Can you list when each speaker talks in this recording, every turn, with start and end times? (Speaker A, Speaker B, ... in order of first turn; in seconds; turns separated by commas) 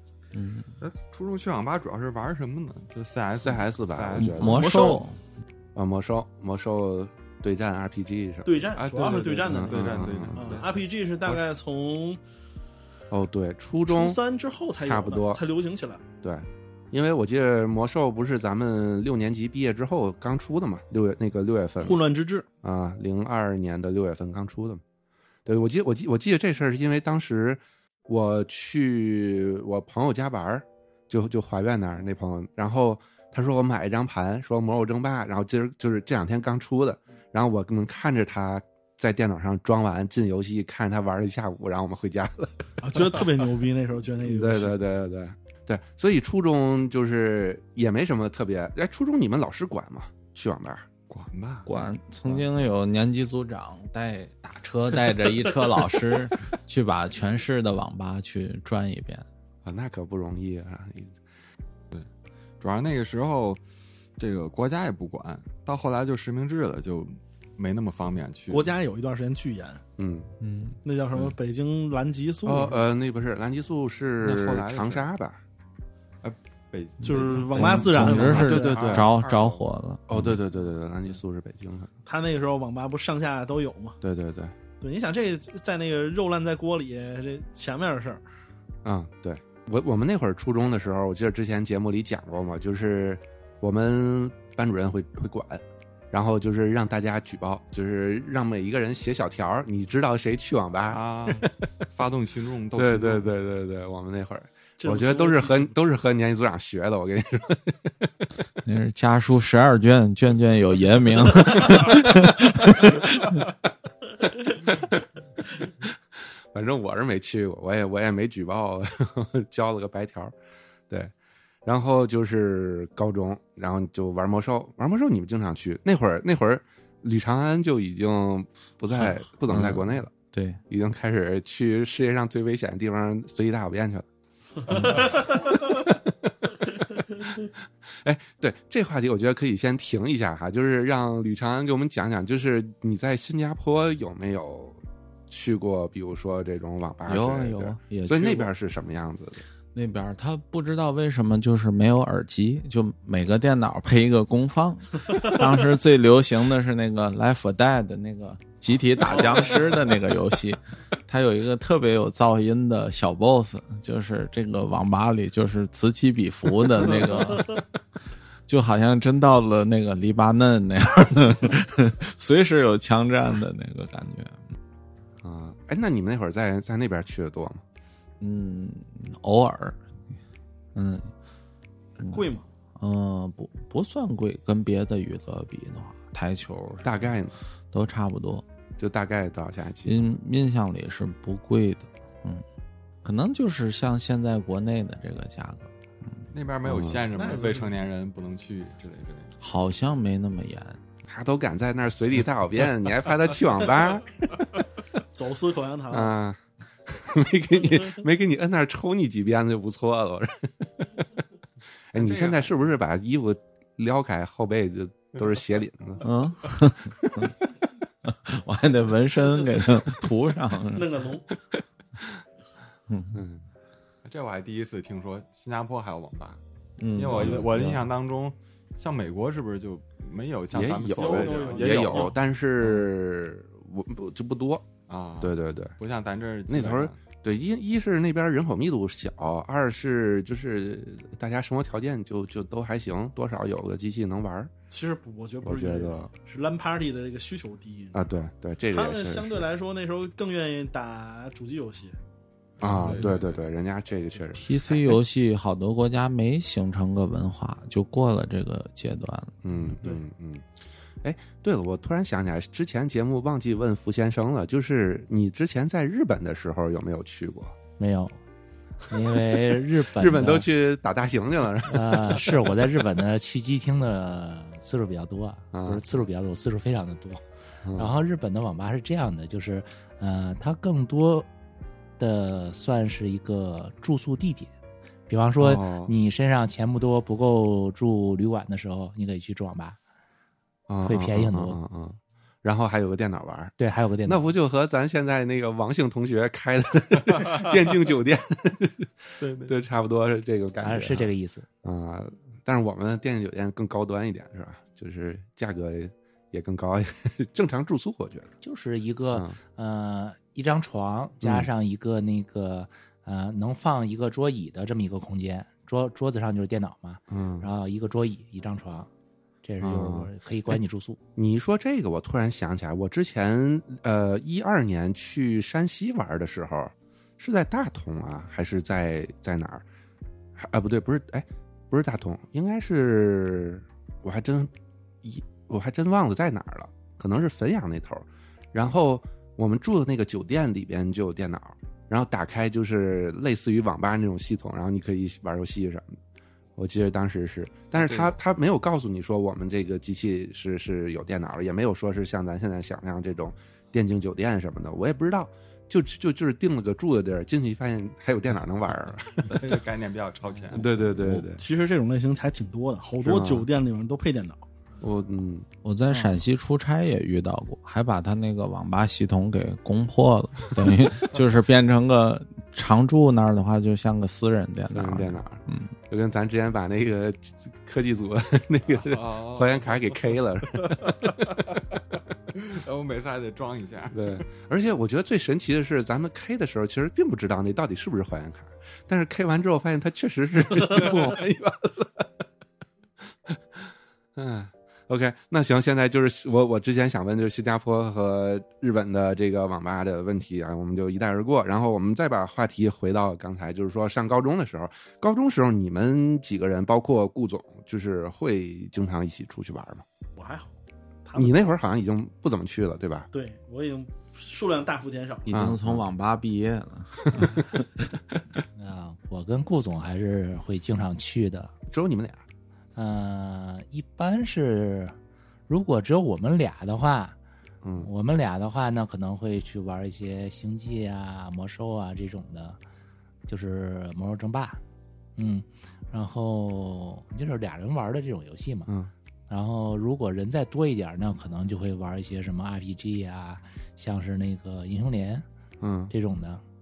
Speaker A: 0.3-0.7, Speaker B: 0.8-4.6, Speaker C: 3.4-4.8, Speaker A: 4.2-5.2, Speaker D: 4.4-5.0, Speaker C: 5.7-8.5, Speaker D: 8.4-12.2, Speaker B: 8.7-10.8, Speaker C: 9.5-10.6, Speaker C: 13.1-14.2, Speaker D: 13.9-16.0, Speaker C: 14.8-15.4, Speaker C: 16.2-22.0, Speaker D: 21.8-22.4, Speaker C: 22.6-24.8, Speaker C: 25.4-43.2, Speaker D: 42.8-44.7, Speaker C: 44.2-50.9, Speaker B: 51.1-52.3, Speaker A: 51.6-59.2, Speaker C: 59.6-61.2, Speaker B: 62.6-63.6, Speaker B: 64.2-68.7, Speaker D: 68.5-69.8, Speaker C: 70.0-70.3, Speaker A: 70.4-70.8, Speaker D: 70.8-72.7, Speaker C: 72.4-75.4, Speaker B: 74.2-75.1, Speaker B: 76.2-79.6, Speaker D: 77.0-78.9, Speaker A: 77.5-80.3, Speaker C: 77.7-79.1, Speaker C: 80.1-81.9, Speaker D: 82.0-84.0, Speaker C: 84.0-84.5, Speaker D: 84.8-88.2, Speaker C: 88.8-101.5, Speaker B: 100.9-103.3, Speaker C: 102.7-108.1, Speaker D: 104.8-105.7, Speaker A: 108.6-113.4, Speaker C: 116.5-120.3, Speaker C: 121.6-130.2, Speaker A: 128.9-130.6, Speaker C: 130.7-134.0, Speaker C: 134.7-136.3, Speaker A: 134.7-135.0, Speaker C: 137.0-149.4, Speaker A: 147.1-148.5, Speaker A: 149.7-167.6, Speaker D: 159.1-159.6, Speaker A: 168.5-174.4, Speaker C: 175.2-177.6, Speaker A: 178.2-179.8, Speaker A: 180.7-181.1, Speaker A: 182.0-182.2, Speaker D: 182.1-182.5, Speaker A: 182.8-186.8, Speaker C: 186.8-187.4, Speaker A: 187.7-188.4, Speaker C: 188.8-190.0, Speaker A: 189.8-192.4, Speaker A: 193.0-196.3, Speaker B: 196.3-199.3, Speaker C: 196.6-197.0, Speaker D: 197.1-197.7, Speaker A: 199.4-200.8, Speaker C: 201.1-204.2, Speaker D: 205.1-206.2, Speaker C: 205.9-210.7, Speaker C: 211.9-216.0, Speaker B: 211.9-212.5, Speaker A: 216.0-217.3, Speaker A: 218.0-221.0, Speaker D: 220.7-221.3, Speaker A: 222.9-223.2, Speaker C: 223.1-223.4, Speaker B: 224.0-226.4, Speaker A: 226.8-227.7, Speaker B: 226.9-232.8, Speaker C: 227.1-227.8, Speaker C: 230.5-234.7, Speaker D: 230.8-232.1, Speaker B: 234.9-237.0, Speaker C: 235.2-235.7, Speaker C: 236.5-244.5, Speaker D: 244.7-248.0, Speaker C: 245.4-246.1, Speaker C: 247.9-249.4, Speaker D: 248.7-252.0, Speaker B: 252.6-253.4, Speaker C: 252.6-254.8, Speaker A: 254.3-259.4, Speaker C: 259.4-260.4, Speaker C: 261.0-267.5, Speaker E: 267.8-268.2, Speaker E: 268.9-270.5, Speaker C: 269.9-272.5, Speaker E: 271.6-277.2, Speaker C: 275.5-275.8, Speaker C: 277.6-277.9, Speaker E: 277.7-281.3, Speaker E: 282.0-284.5, Speaker E: 285.1-289.8, Speaker C: 285.4-285.9, Speaker C: 290.7-301.1, Speaker E: 290.8-291.6, Speaker E: 293.6-294.2, Speaker B: 299.2-299.5, Speaker E: 300.6-301.5, Speaker C: 301.6-308.3, Speaker E: 308.4-318.9, Speaker C: 311.2-311.5, Speaker C: 317.1-317.5, Speaker E: 319.4-321.0, Speaker C: 319.6-320.6, Speaker C: 321.1-329.6, Speaker C: 330.4-334.5, Speaker C: 335.0-346.0, Speaker C: 346.6-359.5, Speaker B: 347.7-348.1, Speaker B: 359.3-360.7, Speaker C: 360.5-361.4, Speaker A: 361.0-361.3, Speaker D: 361.3-364.4, Speaker C: 363.0-363.5, Speaker C: 364.8-365.5, Speaker A: 365.6-375.7, Speaker D: 365.9-366.2, Speaker C: 374.7-381.2, Speaker B: 378.7-379.7, Speaker B: 380.7-381.1, Speaker B: 382.3-383.9, Speaker C: 383.9-392.1, Speaker C: 393.3-409.8, Speaker D: 410.2-411.3, Speaker C: 411.1-413.1, Speaker D: 413.1-415.3, Speaker C: 415.3-415.9, Speaker A: 415.3-417.8, Speaker C: 417.1-417.4, Speaker E: 418.6-421.5, Speaker C: 421.7-422.2, Speaker E: 422.7-424.9, Speaker E: 425.5-427.1, Speaker C: 427.6-427.9, Speaker E: 427.8-432.6, Speaker E: 433.3-434.6, Speaker E: 435.2-438.7, Speaker C: 438.7-438.9, Speaker E: 439.3-445.2, Speaker C: 445.6-445.9, Speaker E: 445.9-446.4